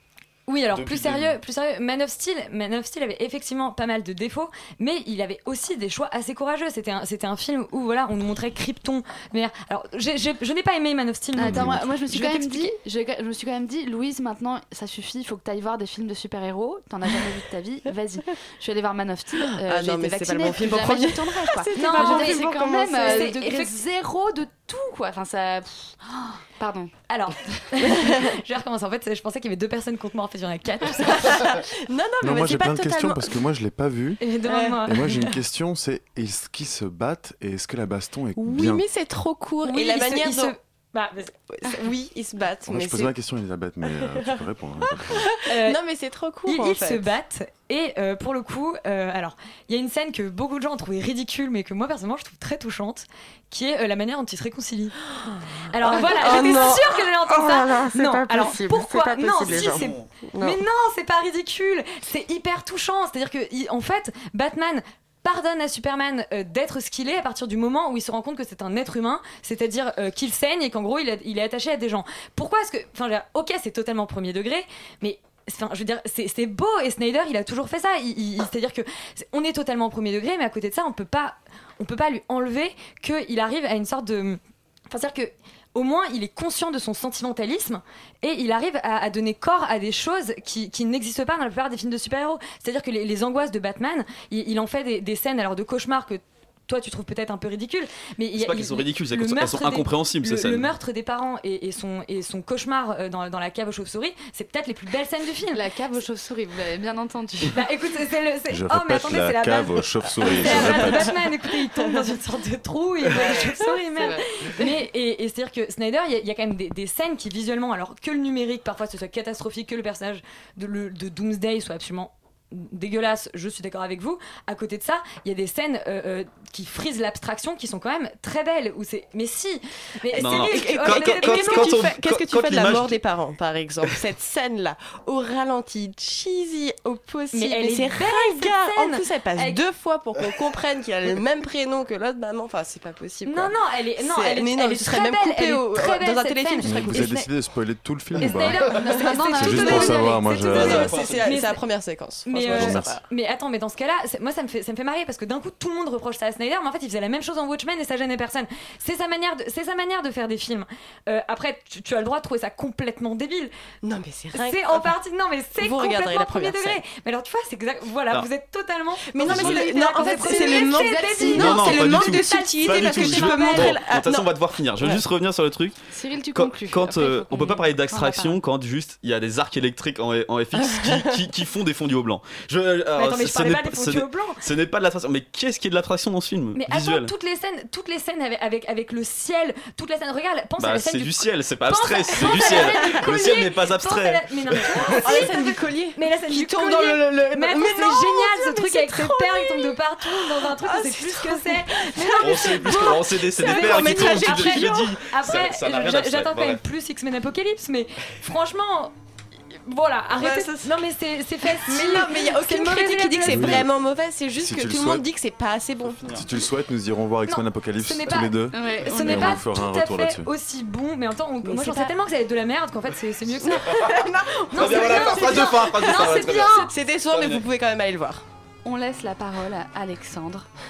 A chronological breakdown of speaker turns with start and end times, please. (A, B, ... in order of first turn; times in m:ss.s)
0:00.5-0:12.7 A
0:00.7-0:01.4 B
0:11.4-0:26.9 C
0:19.4-0:23.6 D
0:21.8-0:23.7 A
0:27.1-0:31.6 A
0:31.2-0:33.3 D
0:32.2-0:34.2 E
0:34.2-0:35.2 A
0:34.5-0:34.8 D
0:34.9-0:38.8 E
0:38.4-0:40.5 D
0:39.6-0:41.3 A
0:41.5-0:43.1 D
0:42.6-0:45.3 E
0:43.9-0:44.4 D
0:44.9-0:47.1 D
0:45.5-0:45.8 A
0:46.5-0:55.0 A
0:55.2-1:00.6 D
0:55.7-1:45.6 A
0:59.4-1:00.1 B
1:38.4-1:40.7 B
1:45.5-1:47.6 C
1:47.5-2:11.8 A
1:48.5-1:51.2 E
1:53.1-1:53.4 C
1:53.9-1:54.2 C
2:10.1-2:27.2 D
2:10.2-2:13.0 B
2:17.3-2:19.6 A
2:23.3-2:27.2 A
2:26.6-2:28.7 E
2:28.2-2:31.6 A
2:28.5-2:30.2 C
2:28.9-2:29.6 D
2:29.3-2:31.0 E
2:30.5-2:33.0 D
2:30.6-2:31.2 B
2:32.2-2:43.5 A
2:32.5-2:33.0 E
2:43.8-2:44.9 D
2:44.3-2:53.8 A
2:45.6-2:46.8 D
2:49.1-2:54.5 D
2:49.2-2:49.6 B
2:51.4-2:55.8 B
2:55.9-2:58.4 C
2:56.3-3:07.1 B
3:03.0-3:04.4 A
3:06.6-3:28.9 A
3:10.6-3:14.9 B
3:12.2-3:13.0 D
3:15.0-3:25.1 D
3:22.2-3:26.6 B
3:29.7-3:33.7 A
3:30.1-3:30.8 D
3:31.5-3:36.1 D
3:33.3-3:33.7 E
3:34.4-3:35.0 E
3:35.8-3:36.3 B
3:36.2-3:40.3 E
3:37.3-3:43.7 A
3:38.5-3:39.4 C
3:41.4-3:41.9 C
3:43.4-3:48.2 D
3:44.5-3:46.7 A
3:44.6-3:47.4 B
3:48.6-3:50.5 C